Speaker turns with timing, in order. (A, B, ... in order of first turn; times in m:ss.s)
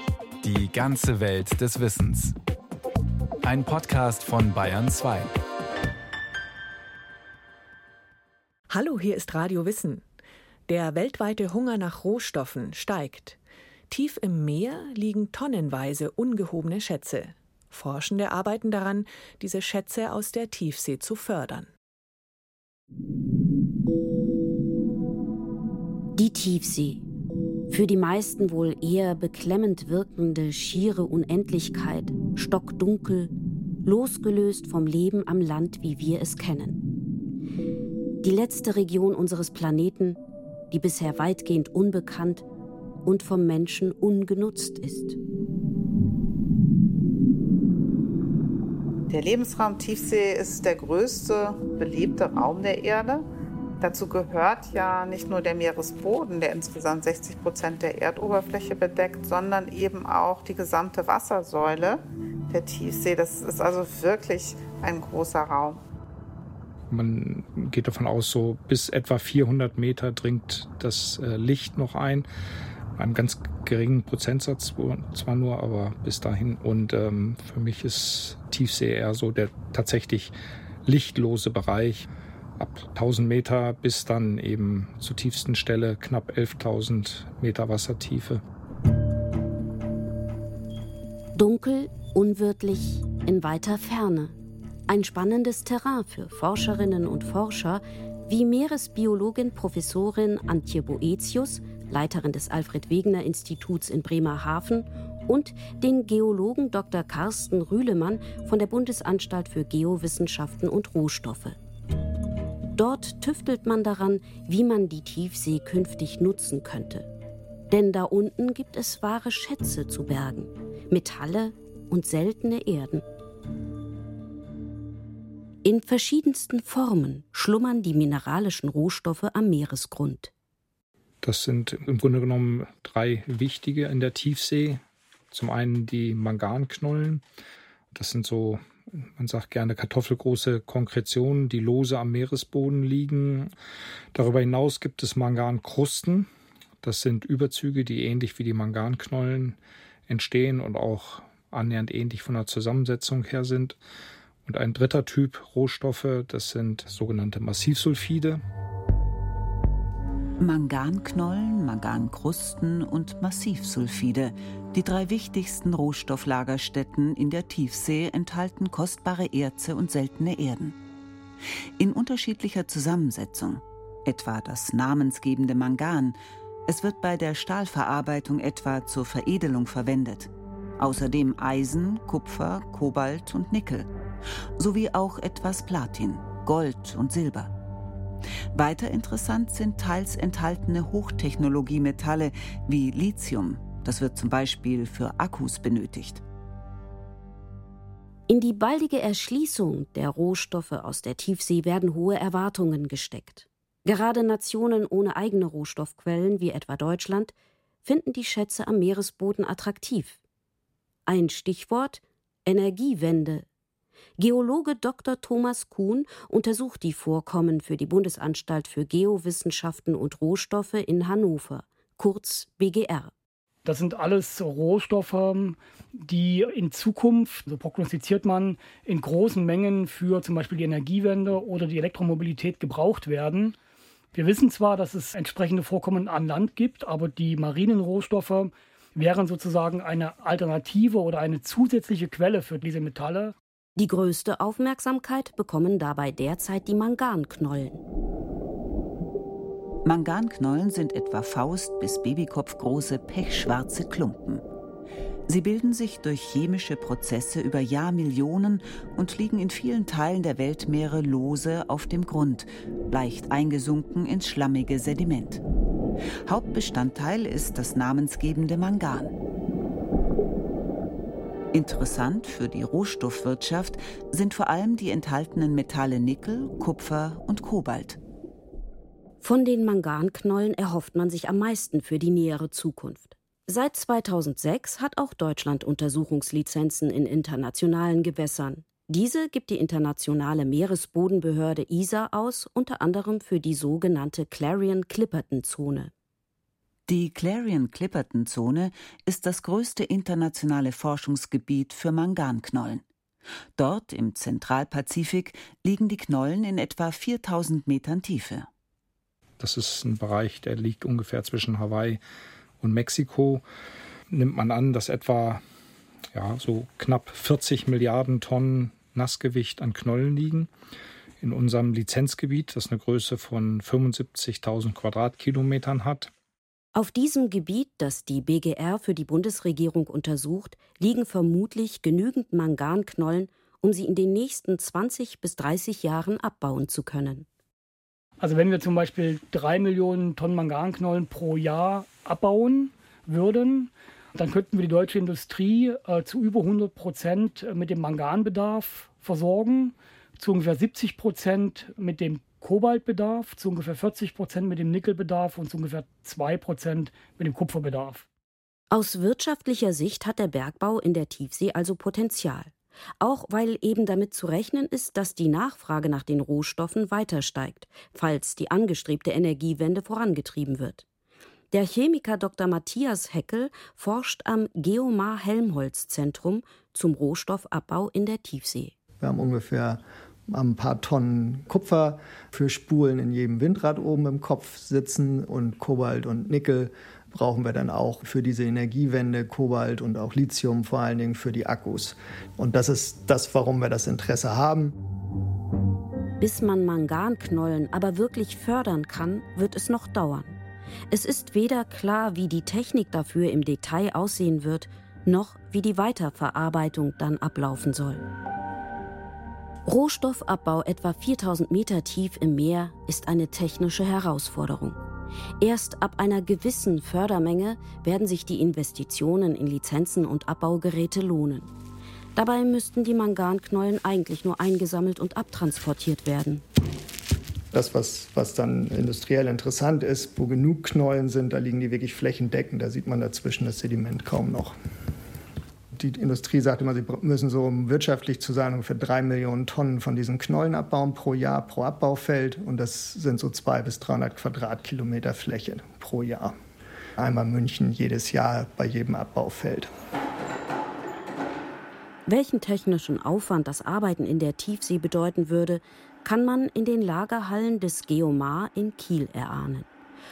0:00.4-0:02.4 A
0:03.4-0:05.3 A
0:08.7-0:10.0 B
0:10.7-0:13.4 B
0:13.9-0:21.7 B
0:26.2-0:27.0 C
0:27.7-0:33.3 C
0:33.8-0:36.8 C
0:38.2-0:40.2 C
0:40.7-0:42.4 C
0:43.1-0:45.2 C
0:49.1-0:53.3 D
0:53.8-1:05.8 D
1:06.9-1:12.3 E
1:13.0-1:20.3 E
1:20.9-1:28.4 E
1:31.4-1:34.4 C
1:34.9-1:51.6 C
1:52.8-1:57.1 C
1:57.7-2:03.0 C
2:05.6-2:10.3 C
2:11.2-2:17.2 E
2:17.9-2:23.5 E
2:24.1-2:26.3 E
2:26.8-2:33.8 E
2:34.4-2:38.4 E
2:40.4-2:50.8 F
2:51.8-3:03.9 F
3:04.6-3:07.5 F
3:08.5-3:16.2 F
3:18.3-3:27.3 C
3:27.8-3:30.2 C
3:31.1-3:33.5 C
3:34.2-3:43.1 C
3:43.6-3:53.6 G
3:54.1-4:03.4 G
4:03.8-4:07.8 C
4:09.8-4:14.4 F
4:15.3-4:25.4 F
4:26.3-4:29.1 F
4:31.5-4:38.0 F
4:39.2-4:55.9 C
4:56.9-5:02.8 F
5:03.6-5:08.5 F
5:09.4-5:12.0 E
5:12.6-5:13.4 E
5:14.1-5:15.4 E
5:16.1-5:20.5 E
5:21.2-5:26.1 E
5:26.8-5:37.3 C
5:38.2-5:58.1 G
5:58.7-6:10.8 C
6:11.5-6:18.7 C
6:19.0-6:34.8 H
6:36.2-6:40.4 C
6:40.9-6:48.0 C
6:49.7-6:54.8 C
6:55.4-7:01.5 C
7:02.2-7:06.4 C
7:07.5-7:14.6 H
7:15.7-7:26.4 H
7:27.0-7:29.7 H
7:32.1-7:39.7 C